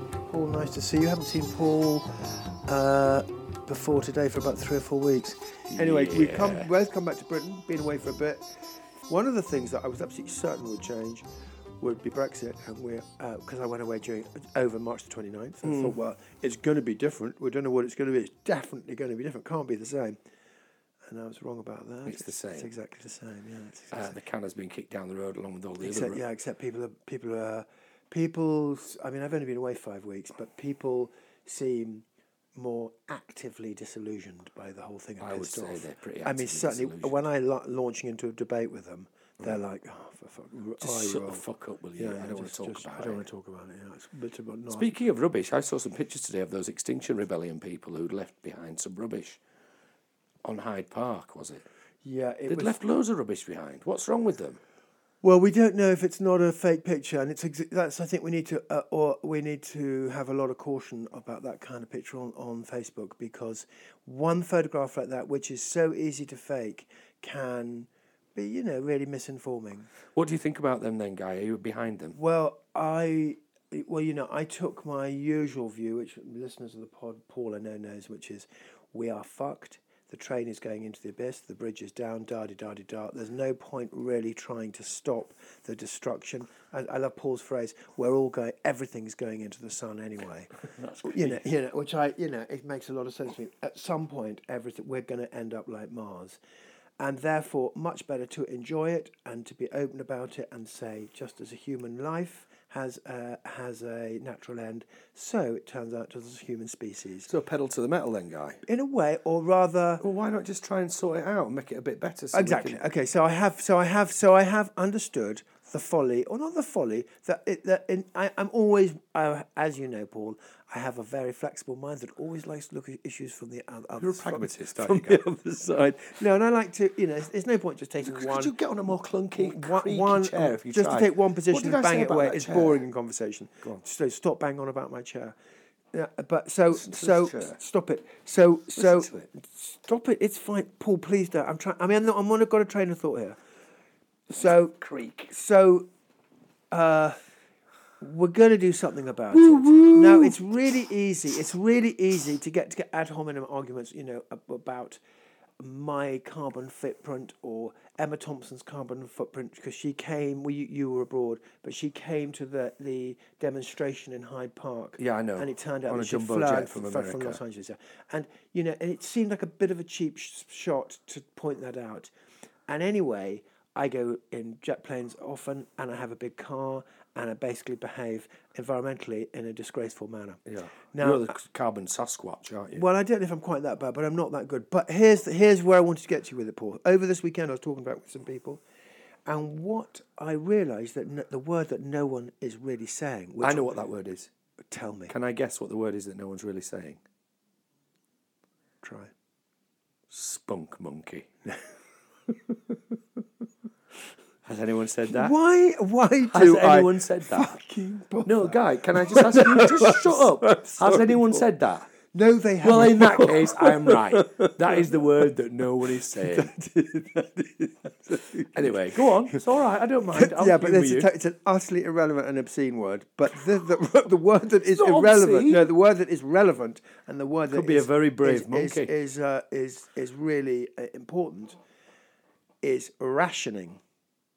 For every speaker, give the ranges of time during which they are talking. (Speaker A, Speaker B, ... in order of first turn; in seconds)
Speaker A: 0.3-2.1, 2.7-8.4, 9.1-11.2, 11.8-20.2, 21.1-24.1, 25.8-44.9, 52.0-52.8, 55.2-69.9, 72.1-96.4, 97.0-107.3, 108.7-110.0, 112.3-128.6, 129.3-135.3, 135.9-143.4, 144.3-144.8, 145.3-145.9, 146.7-147.2, 148.0-155.0, 155.6-172.1, 172.7-181.3, 182.7-188.6, 189.3-193.9, 194.6-195.1, 198.8-199.1, 202.3-202.8, 205.1-211.5, 212.1-215.3, 216.0-219.4, 220.1-231.6, 232.6-233.8
Speaker B: 5.7-6.7, 15.6-15.9, 22.1-22.7, 23.9-26.2, 35.2-37.2, 40.8-43.2, 44.7-49.4, 50.5-51.7, 52.5-54.6, 70.1-72.2, 90.7-91.5, 107.3-108.6, 110.0-112.8, 124.0-125.3, 128.0-132.8, 136.7-137.6, 138.8-139.3, 144.4-145.3, 149.3-150.7, 165.0-167.4, 180.5-182.8, 193.4-194.3, 195.1-197.0, 200.1-201.3, 204.4-205.3, 206.2-207.6, 208.2-211.9, 212.6-216.5, 218.5-221.1, 224.7-225.7, 227.5-228.9